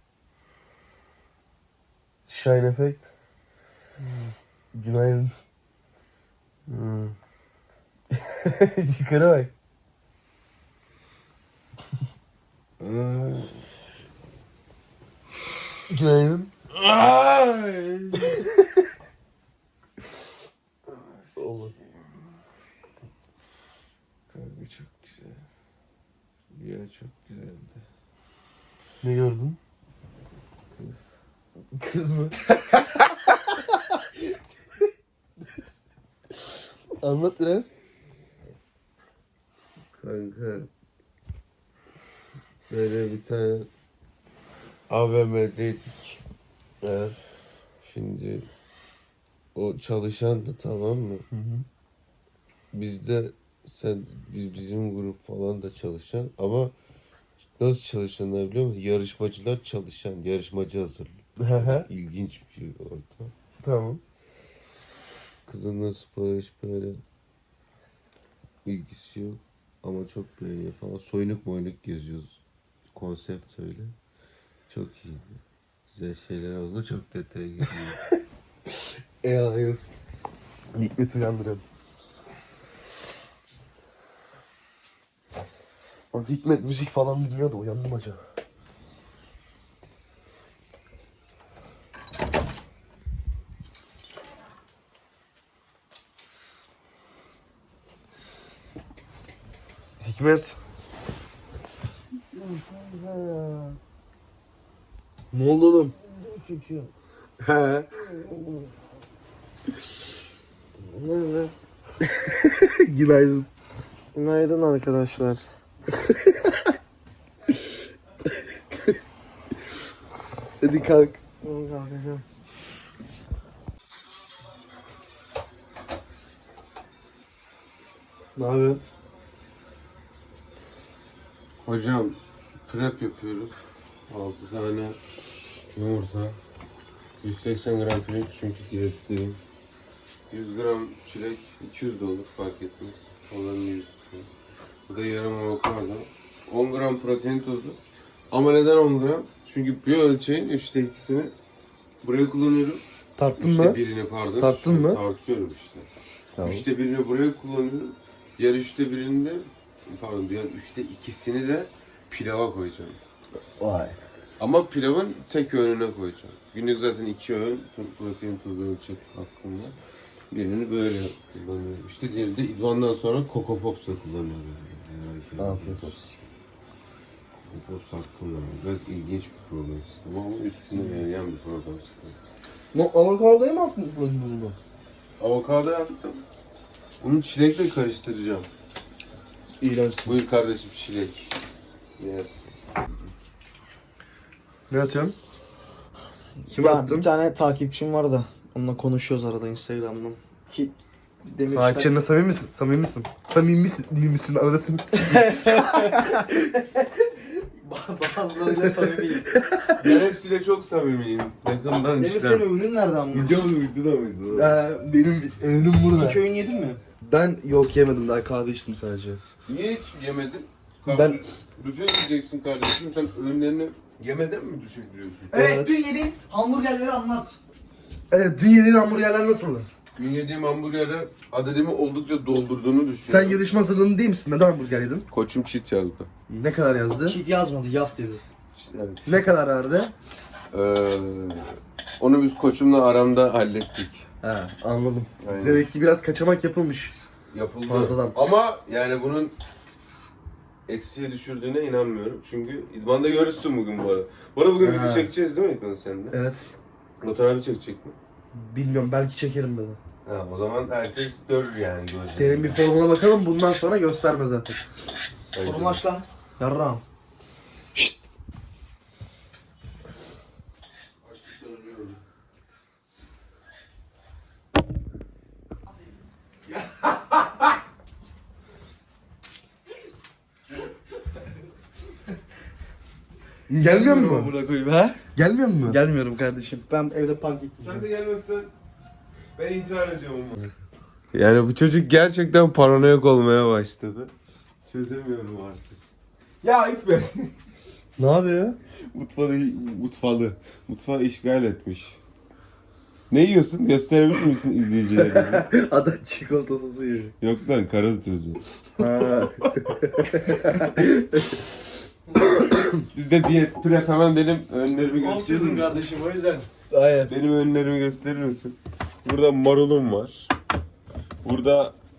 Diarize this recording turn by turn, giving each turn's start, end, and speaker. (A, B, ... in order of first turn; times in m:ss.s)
0:02.3-0:03.1 A
0:04.7-0:05.3 A
0:06.7-0:07.2 B
0:08.4-0:09.5 B
0:12.8-0:13.6 B
0:15.9-0:18.4 B
0:20.9-0:21.7 B
0:21.4-0:21.7 A
0:24.3-0:25.4 B
0:26.5-0:27.8 B
0:29.0-0:29.6 A
0:30.7-0:31.1 B
0:31.7-0:32.4 A
0:37.0-0:37.7 A
0:40.0-0:40.7 B
0:42.7-0:43.7 B
0:44.9-0:46.2 B
0:46.8-0:47.2 B
0:47.8-0:48.4 B
0:49.5-0:51.2 B
0:52.7-0:56.7 B
0:57.6-1:03.3 B
1:01.4-1:01.9 A
1:03.6-1:04.0 A
1:05.5-1:07.0 B
1:08.6-1:12.4 B
1:12.9-1:13.9 B
1:14.7-1:18.0 B
1:19.2-1:19.9 A
1:20.7-1:21.6 A
1:26.1-1:28.2 A
1:40.0-1:40.6 A
1:42.3-1:43.8 B
1:45.3-1:45.9 A
1:46.1-1:46.9 B
1:47.4-1:48.5 B
1:50.9-1:51.5 B
1:52.2-1:53.5 A
1:54.1-1:55.4 B
1:56.1-1:56.4 A
2:00.6-2:01.2 A
2:01.5-2:02.1 C
2:01.5-2:02.2 B
2:08.4-2:08.8 A
2:11.6-2:15.0 B
2:15.7-2:16.4 B
2:17.2-2:19.4 B
2:20.3-2:24.3 B
2:24.9-2:27.8 B
2:28.3-2:31.3 B
2:32.0-2:32.8 B
2:33.2-2:33.8 A
2:33.4-2:35.9 B
2:34.4-2:35.0 A
2:36.4-2:36.6 A
2:36.4-2:43.0 B
2:43.6-2:44.0 A
2:44.4-2:49.7 B
2:50.3-2:56.0 B
2:55.4-2:56.2 A
2:57.5-3:02.2 B
3:00.8-3:01.0 A
3:02.7-3:04.6 A
3:05.2-3:06.2 B
3:07.0-3:08.5 B
3:09.6-3:10.2 A
3:10.0-3:11.2 B
3:12.0-3:12.5 B
3:14.7-3:15.1 A
3:16.5-3:20.7 C
3:16.5-3:17.1 A
3:21.2-3:21.9 C
3:21.5-3:25.3 A
3:25.1-3:26.0 C
3:27.6-3:29.3 C
3:29.4-3:29.8 A
3:29.8-3:32.5 B
3:31.9-3:33.4 C
3:33.1-3:34.6 B
3:34.3-3:36.2 A
3:35.9-3:36.8 C
3:37.0-3:39.2 A
3:39.5-3:45.6 B
3:40.8-3:41.2 A
3:45.3-3:47.4 C
3:45.3-3:45.8 A
3:48.1-3:49.7 A
3:49.9-3:53.4 B
3:53.0-3:55.0 A
3:55.1-3:56.1 B
3:56.3-3:57.2 A
3:57.0-3:58.2 C
3:58.5-3:59.3 B
3:59.0-3:59.9 A
4:00.5-4:04.1 B
4:04.2-4:06.9 A
4:05.2-4:05.7 B
4:07.3-4:09.4 B
4:07.6-4:08.1 A
4:10.7-4:16.2 B
4:14.6-4:15.1 A
4:16.1-4:16.4 A
4:17.0-4:18.0 B
4:18.3-4:19.8 A
4:20.0-4:22.6 B
4:22.1-4:24.6 A
4:25.3-4:25.8 B
4:25.4-4:26.8 C
4:31.0-4:32.0 B
4:43.5-4:44.3 A
4:43.6-4:45.0 C
4:45.2-4:45.8 A
4:45.7-4:47.8 C
4:47.6-4:48.5 B
4:49.4-4:50.5 B
4:51.1-4:54.1 B
4:54.6-4:55.8 B
4:56.4-4:57.3 B
4:58.0-4:58.6 A
4:58.9-5:02.0 B
5:03.1-5:05.5 B
5:05.0-5:07.1 A
5:07.2-5:08.4 B
5:08.8-5:11.2 A
5:12.2-5:12.7 A
5:12.9-5:15.8 B
5:15.0-5:16.5 C
5:16.7-5:17.1 A
5:17.0-5:20.3 B
5:21.2-5:21.7 B